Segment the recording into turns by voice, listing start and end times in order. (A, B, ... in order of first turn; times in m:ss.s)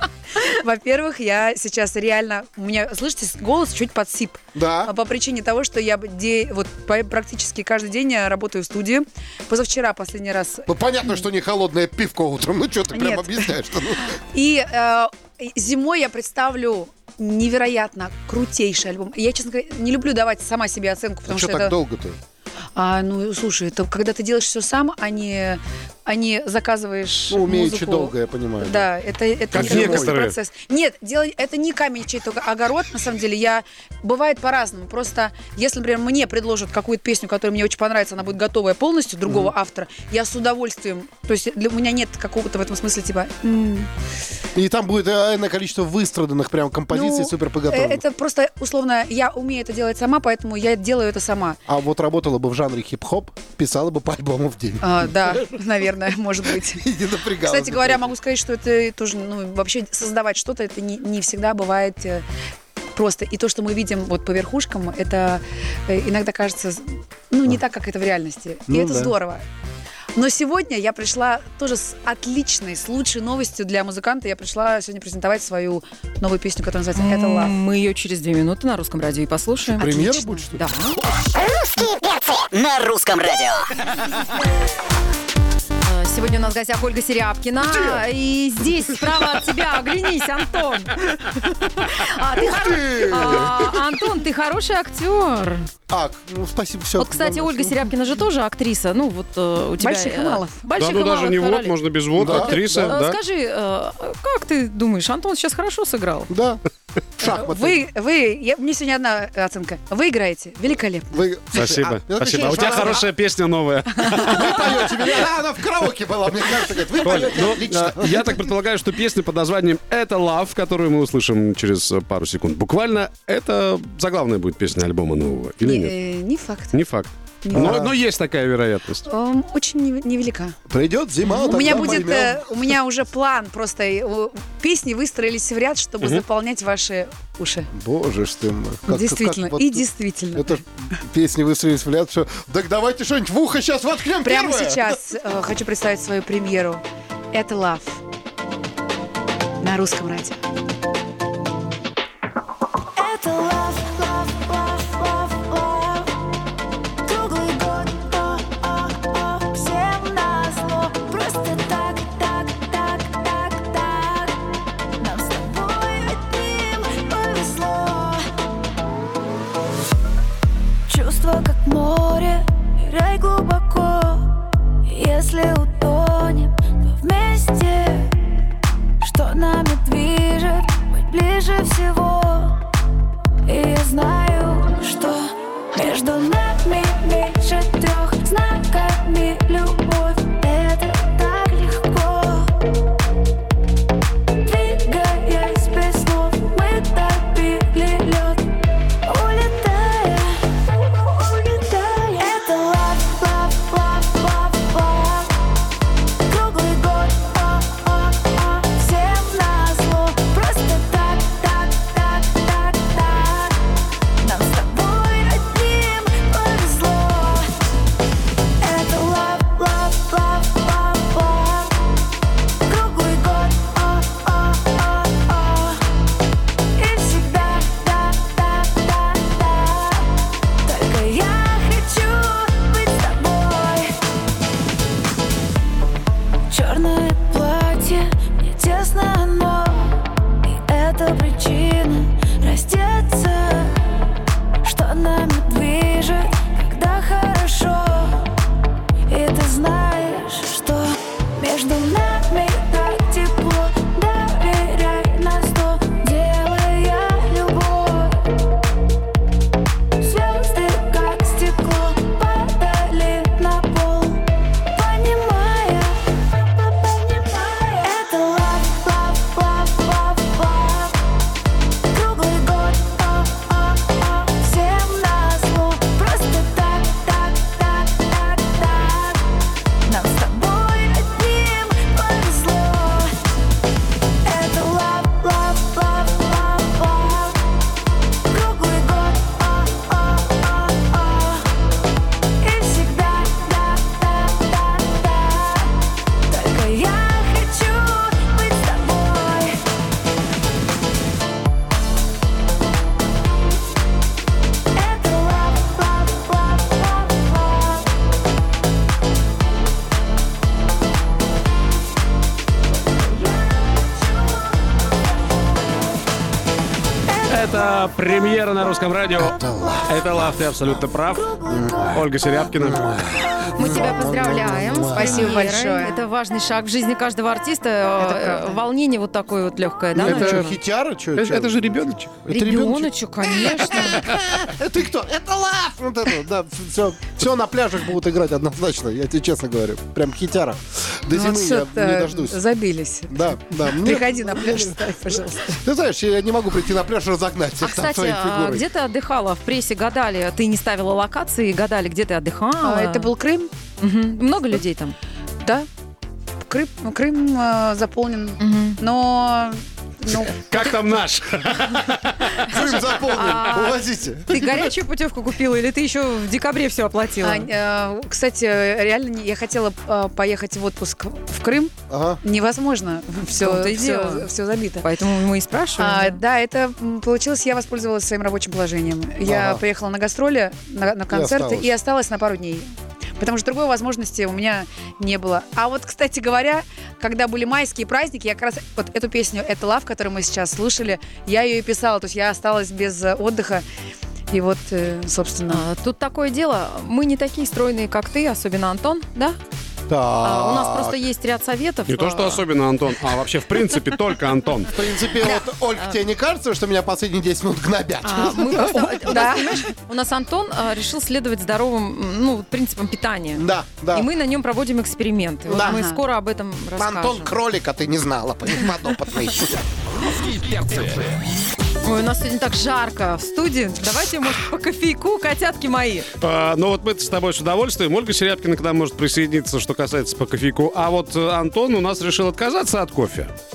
0:00.4-0:11.2 A
0:04.6-0:04.9 B
0:10.7-0:14.2 B
0:12.9-0:13.5 A
0:14.3-0:21.7 A
0:21.3-0:22.2 B
0:22.8-0:43.9 A
0:27.3-0:28.9 B
0:29.5-0:30.1 B
0:29.5-0:30.4 C
0:39.2-0:39.5 B
0:44.6-0:48.0 B
0:46.9-0:51.6 A
0:51.7-0:55.5 B
0:54.8-0:56.9 A
0:56.7-0:58.2 B
0:57.5-1:02.2 A
1:02.9-1:09.4 A
1:08.7-1:09.1 B
1:10.2-1:17.5 A
1:17.0-1:20.0 D
1:19.8-1:21.1 B
1:19.8-1:20.5 A
1:20.6-1:21.0 D
1:21.8-1:23.8 E
1:25.8-1:31.0 D
1:27.6-1:28.0 B
1:31.8-1:35.7 D
1:32.3-1:33.8 B
1:35.9-1:37.8 B
1:37.0-1:46.3 D
1:39.8-1:40.5 A
1:40.8-1:43.2 C
1:42.2-1:43.0 B
1:46.3-1:46.6 B
1:47.2-1:47.8 B
1:47.2-1:51.2 A
1:51.1-1:53.1 B
1:51.5-1:54.8 C
1:52.4-1:53.0 A
1:54.0-1:54.4 A
1:54.1-1:58.5 B
1:57.0-2:06.0 C
2:05.6-2:06.8 A
2:06.7-2:09.1 C
2:07.4-2:07.9 A
2:07.5-2:07.9 B
2:09.1-2:10.6 A
2:10.7-2:12.5 B
2:11.3-2:11.5 D
2:11.4-2:17.7 A
2:17.7-2:25.0 B
2:18.9-2:20.6 A
2:24.2-2:28.0 A
2:29.6-2:30.4 A
2:33.0-2:36.0 F
2:33.4-2:33.8 D
2:37.1-2:44.3 F
2:45.0-2:48.2 F
2:50.9-2:54.3 F
2:54.9-2:58.1 F
2:59.0-3:02.6 F
3:03.5-3:05.2 F
3:05.7-3:12.5 F
3:14.5-3:18.4 F
3:19.1-3:20.4 F
3:21.2-3:25.3 F
3:26.3-3:33.5 F
3:34.2-3:37.4 F
3:38.6-3:41.7 F
3:42.7-3:45.8 F
3:46.8-3:50.0 F
3:50.6-3:53.9 F
3:56.5-4:03.8 F
4:04.6-4:08.2 F
4:09.1-4:18.2 F
4:20.0-4:24.2 F
4:24.8-4:26.0 F
4:26.7-4:30.9 F
4:31.9-4:39.2 F
4:39.9-4:43.1 F
4:44.2-4:47.4 F
4:48.3-4:51.4 F
4:52.4-4:55.7 F
4:56.3-4:59.5 F
5:04.8-5:07.5 F
5:17.2-5:21.4 C
5:19.2-5:20.0 B
5:21.4-5:22.1 B
5:21.9-5:23.0 C
5:22.6-5:25.4 B
5:23.5-5:30.5 D
5:24.9-5:26.0 A
5:28.0-5:28.6 A
5:30.0-5:31.6 B
5:30.0-5:30.6 C
5:31.2-5:32.2 C
5:32.2-5:42.4 B
5:32.3-5:34.1 D
5:41.1-5:45.6 A
5:43.1-5:44.9 B
5:45.6-5:48.6 B
5:47.6-5:53.1 D
5:52.6-5:53.5 A
5:53.8-5:55.0 D
5:56.5-6:00.7 A
5:58.4-5:58.8 D
6:00.4-6:02.4 C
6:02.5-6:04.7 B
6:02.6-6:07.5 D
6:07.2-6:14.9 A
6:11.9-6:12.2 B
6:13.4-6:14.2 D
6:14.8-6:16.2 D
6:15.8-6:33.6 A
6:19.2-6:19.6 B
6:21.1-6:21.7 B
6:34.3-6:35.6 A
6:35.5-6:39.4 D
6:39.9-6:41.0 B
6:40.2-6:42.4 D
6:41.9-6:44.8 C
6:44.7-6:49.3 B
6:45.2-6:46.0 D
6:48.0-6:57.3 D
6:48.4-6:49.7 A
6:53.4-6:54.1 B
6:55.5-6:55.8 B
6:55.5-6:56.0 A
6:56.8-6:59.6 B
7:01.8-7:06.1 D
7:06.2-7:13.3 C